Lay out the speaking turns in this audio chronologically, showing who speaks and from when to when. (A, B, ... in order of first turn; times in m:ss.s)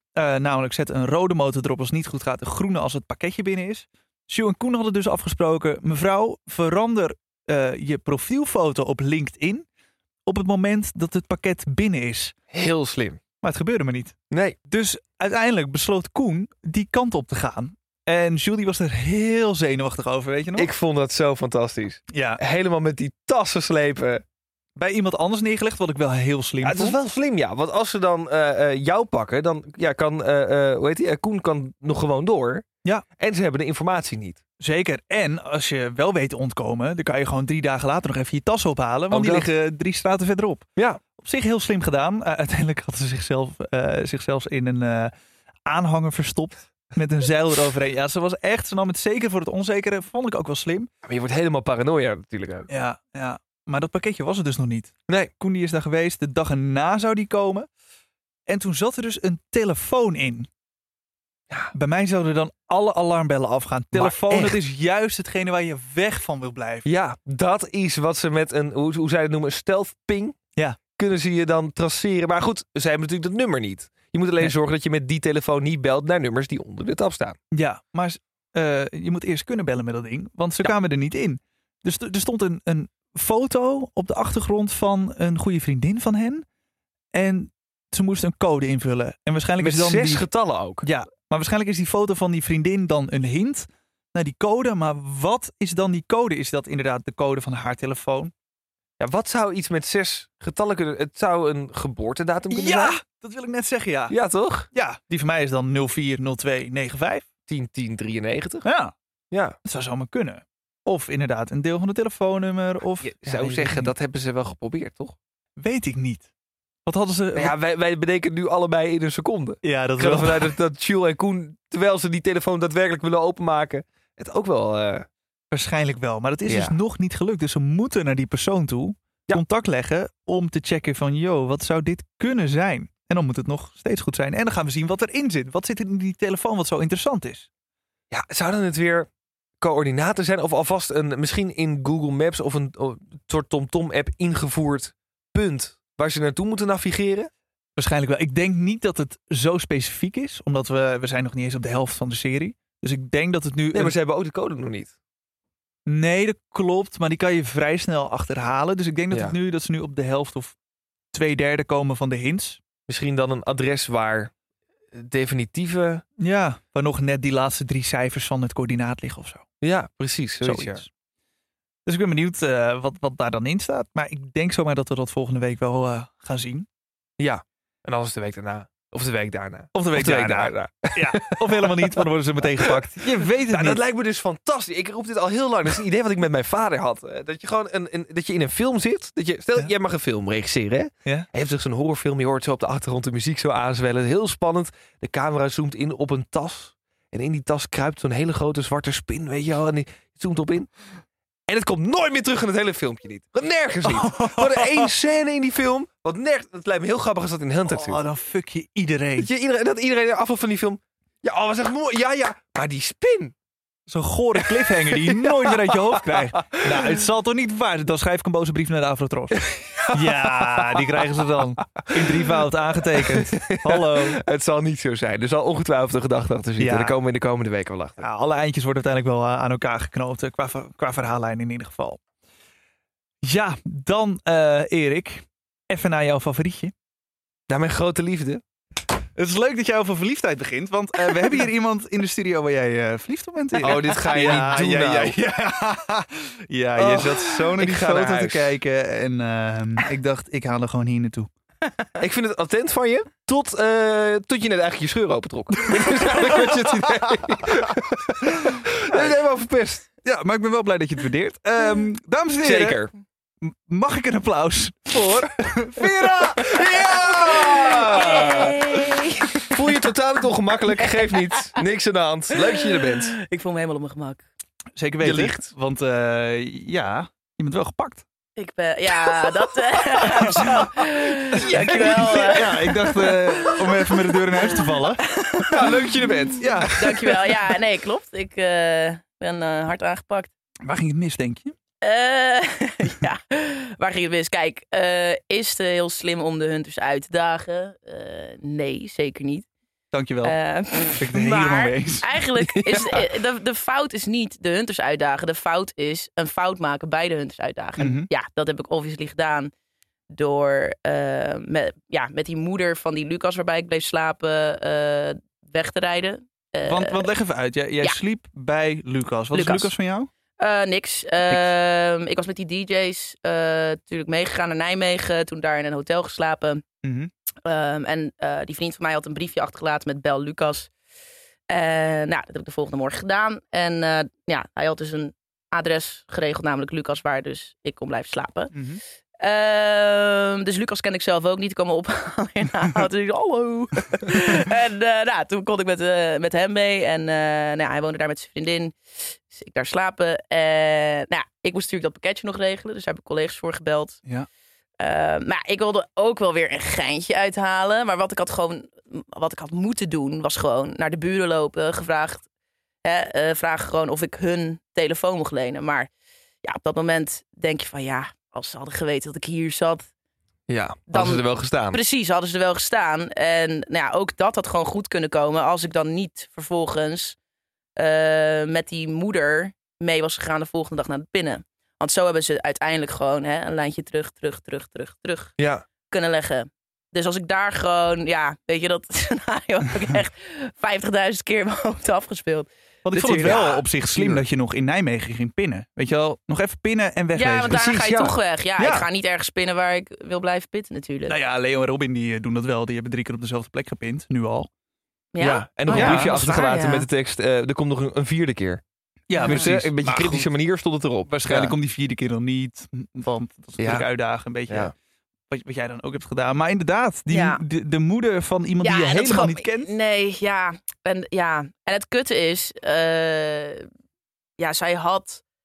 0:00.2-0:09.6 A
0:10.3-0:12.4 A
0:12.5-0:13.2 B
0:13.4-0:14.2 A
0:14.3-0:14.6 B
0:14.7-0:20.7 A
0:20.6-0:24.2 B
0:22.1-0:22.4 A
0:24.8-0:27.0 A
0:26.6-0:32.7 B
0:33.2-0:34.4 B
0:34.6-0:45.1 A
0:39.1-0:39.5 B
0:45.7-0:50.9 A
0:51.0-0:52.7 B
0:52.7-0:57.7 A
0:58.5-1:00.5 A
1:01.7-1:06.9 A
1:03.9-1:04.6 B
1:06.9-1:10.4 B
1:11.0-1:17.4 B
1:17.5-1:26.4 A
1:27.1-1:30.3 A
1:29.6-1:30.8 B
1:30.8-1:38.3 A
1:39.0-1:43.0 B
1:42.5-1:44.2 A
1:44.1-1:44.7 B
1:44.7-1:47.3 A
1:47.5-1:48.6 B
1:48.6-1:48.9 A
1:49.3-1:49.6 B
1:49.6-1:53.9 A
1:53.0-1:55.2 B
1:55.6-1:56.3 A
1:56.9-1:57.6 A
1:57.4-2:05.1 B
1:59.6-2:00.6 A
2:05.5-2:17.5 A
2:06.5-2:06.8 B
2:18.1-2:19.1 B
2:19.6-2:27.3 B
2:27.8-2:34.0 A
2:33.7-2:34.9 B
2:35.9-2:40.6 A
2:41.1-2:42.6 A
2:42.9-2:44.3 B
2:44.9-2:46.0 B
2:46.2-2:49.4 A
2:49.6-2:50.9 B
2:50.4-2:50.9 A
2:51.9-2:56.7 A
2:57.2-3:02.0 B
2:59.7-3:03.8 A
3:02.6-3:20.7 B
3:21.5-3:28.0 B
3:23.8-3:24.9 A
3:27.7-3:29.3 A
3:29.2-3:33.3 B
3:33.9-3:44.2 A
3:34.7-3:36.3 B
3:39.4-3:41.1 B
3:43.0-3:48.0 B
3:46.6-3:47.0 A
3:48.0-3:52.0 A
3:53.2-3:56.7 A
3:57.5-3:58.4 B
3:59.2-4:11.3 A
4:03.6-4:05.2 B
4:06.8-4:08.5 B
4:12.0-4:19.9 B
4:15.7-4:17.4 A
4:20.0-4:22.8 A
4:22.4-4:22.9 B
4:23.4-4:27.1 A
4:26.4-4:28.8 B
4:27.8-4:29.6 C
4:29.5-4:33.2 B
4:30.8-4:31.6 C
4:32.6-4:34.2 C
4:34.8-4:38.0 A
4:35.0-4:35.4 B
4:38.4-4:44.2 C
4:40.1-4:40.6 A
4:41.4-4:45.1 A
4:41.4-4:42.3 B
4:45.0-4:45.8 C
4:45.5-4:46.6 B
4:46.4-4:47.3 A
4:46.8-4:50.3 C
4:50.6-4:51.5 A
4:51.8-4:59.5 C
4:59.9-5:00.4 A
5:00.2-5:09.5 C
5:01.0-5:02.1 A
5:02.4-5:03.0 B
5:07.8-5:08.1 A
5:10.1-5:17.1 C
5:16.6-5:20.1 A
5:19.3-5:19.7 C
5:20.4-5:26.6 C
5:26.8-5:27.1 A
5:27.4-5:30.7 C
5:31.5-5:38.6 C
5:38.5-5:38.8 A
5:39.2-5:54.0 C
5:54.8-6:02.2 C
6:02.8-6:05.9 C
6:06.4-6:09.9 C
6:10.5-6:11.8 B
6:10.9-6:17.2 C
6:17.8-6:25.4 C
6:25.4-6:25.7 B
6:25.9-6:33.6 C
6:32.8-6:37.6 A
6:33.0-6:34.2 B
6:37.2-6:41.2 C
6:37.5-6:38.2 B
6:38.6-6:38.9 A
6:41.1-6:44.5 A
6:45.1-6:46.9 C
6:45.2-6:48.6 B
6:45.7-6:46.1 A
6:49.1-6:50.3 A
6:49.2-6:49.5 C
6:49.2-6:51.6 B
6:51.1-6:54.7 A
6:53.6-6:53.9 B
6:55.3-6:59.7 A
6:57.1-6:57.4 C
6:58.6-7:03.7 C
7:04.4-7:05.2 C